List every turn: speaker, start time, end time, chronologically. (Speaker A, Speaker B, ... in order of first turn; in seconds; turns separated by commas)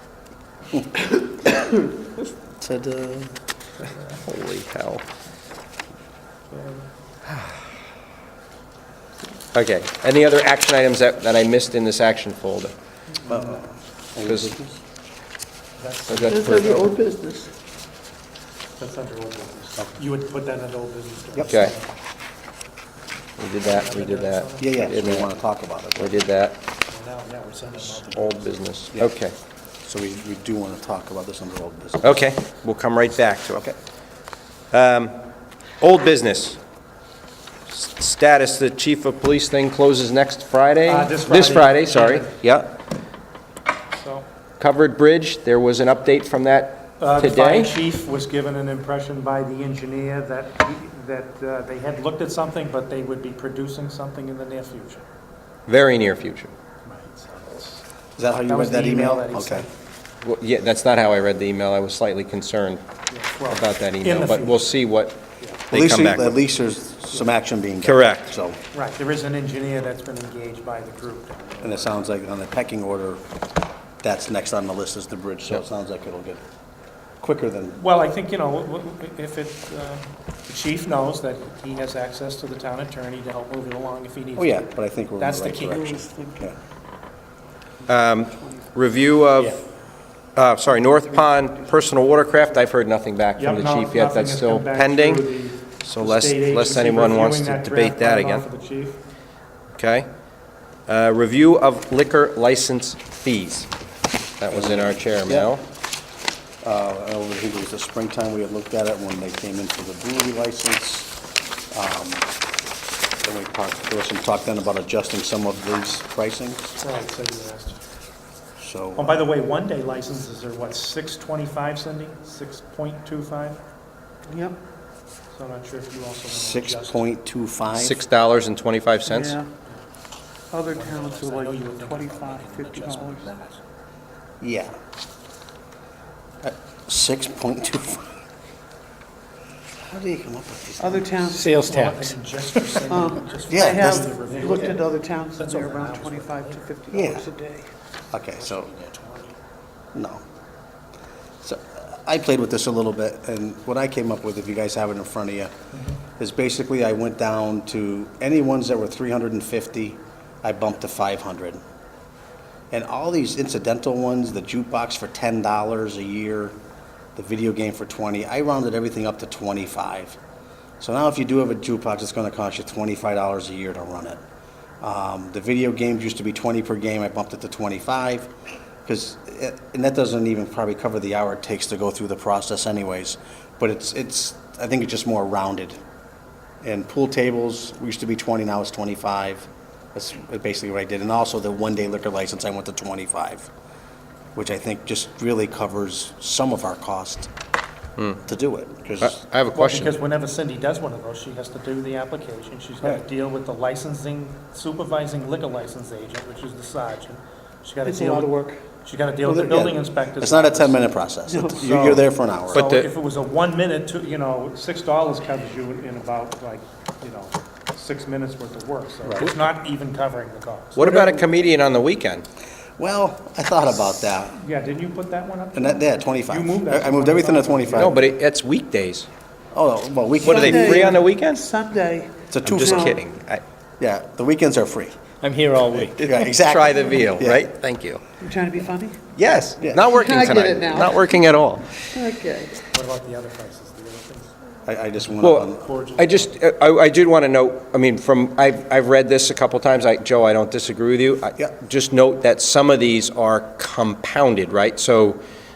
Speaker A: 2.6-3.4, Speaker B: 4.2-5.0, Speaker C: 6.5-6.8, Speaker B: 9.5-12.7, Speaker A: 13.2-14.8, Speaker B: 14.2-14.6, Speaker C: 15.8-16.8, Speaker B: 16.1-17.0, Speaker D: 16.3-17.5, Speaker C: 18.8-21.9, Speaker B: 21.5-21.7, Speaker B: 23.4-25.3, Speaker C: 23.6-24.8, Speaker A: 24.6-26.2, Speaker B: 25.9-26.6, Speaker C: 26.9-28.5, Speaker B: 28.1-29.3, Speaker A: 28.9-29.2, Speaker A: 29.8-32.2, Speaker B: 32.0-33.7, Speaker B: 34.7-35.1, Speaker B: 35.8-36.6, Speaker B: 37.7-42.8, Speaker C: 40.8-42.4, Speaker C: 43.9-44.3, Speaker B: 44.6-47.7, Speaker C: 47.0-55.0, Speaker B: 55.7-56.5, Speaker C: 56.8-57.8, Speaker A: 58.2-59.7, Speaker C: 58.5-59.7, Speaker B: 60.2-62.8, Speaker C: 63.1-64.8, Speaker B: 63.5-66.4, Speaker A: 65.7-68.6, Speaker B: 67.8-68.3, Speaker C: 68.7-72.0, Speaker A: 71.6-73.2, Speaker A: 74.0-76.4, Speaker A: 77.2-77.8, Speaker C: 77.8-84.7, Speaker A: 84.3-86.5, Speaker C: 85.2-86.0, Speaker D: 85.7-86.5, Speaker D: 87.8-88.6, Speaker B: 87.9-89.6, Speaker B: 90.3-98.4, Speaker C: 93.3-99.0, Speaker B: 99.8-100.1, Speaker B: 100.9-103.7, Speaker B: 104.4-105.6, Speaker A: 104.5-105.6, Speaker A: 106.6-111.1, Speaker A: 111.7-112.2, Speaker A: 113.2-116.8, Speaker C: 116.8-117.8, Speaker A: 118.6-119.2, Speaker C: 119.0-123.6, Speaker D: 124.2-124.6, Speaker C: 125.3-127.1, Speaker A: 126.3-128.0, Speaker B: 127.7-129.4, Speaker D: 129.1-129.5, Speaker D: 130.5-133.4, Speaker C: 130.6-133.6, Speaker A: 134.4-134.7, Speaker A: 136.4-138.1, Speaker A: 139.8-141.2, Speaker D: 140.8-141.5, Speaker E: 141.2-142.2, Speaker C: 141.5-146.7, Speaker D: 142.9-147.7, Speaker A: 143.5-144.1, Speaker A: 146.9-147.2, Speaker A: 148.1-148.7, Speaker C: 148.3-149.3, Speaker A: 149.9-150.2, Speaker A: 151.4-155.5, Speaker C: 155.7-156.0, Speaker A: 156.2-161.6, Speaker A: 162.7-166.5, Speaker A: 167.2-170.2, Speaker A: 170.8-174.2, Speaker A: 174.8-178.3, Speaker A: 178.8-185.8, Speaker A: 186.6-193.5, Speaker A: 194.3-197.3, Speaker A: 198.2-199.2, Speaker B: 199.0-199.9, Speaker C: 199.5-210.9, Speaker D: 207.8-208.7, Speaker A: 209.2-212.6, Speaker D: 211.3-211.8, Speaker C: 211.6-220.8, Speaker B: 212.5-212.9, Speaker B: 220.7-222.2, Speaker A: 222.8-224.3, Speaker C: 224.3-228.1, Speaker A: 225.5-228.1, Speaker B: 227.7-229.1, Speaker A: 229.5-231.0, Speaker D: 230.2-233.0, Speaker B: 230.2-231.4, Speaker A: 232.3-233.0, Speaker B: 232.4-233.4, Speaker A: 233.8-234.9, Speaker E: 235.2-236.3, Speaker A: 236.0-237.5, Speaker B: 236.4-238.0, Speaker D: 238.2-239.0, Speaker B: 239.1-241.9, Speaker A: 239.6-239.9, Speaker D: 239.9-241.0, Speaker D: 241.9-242.6, Speaker C: 242.6-244.3, Speaker A: 244.7-245.7, Speaker B: 245.2-255.2, Speaker C: 245.4-246.4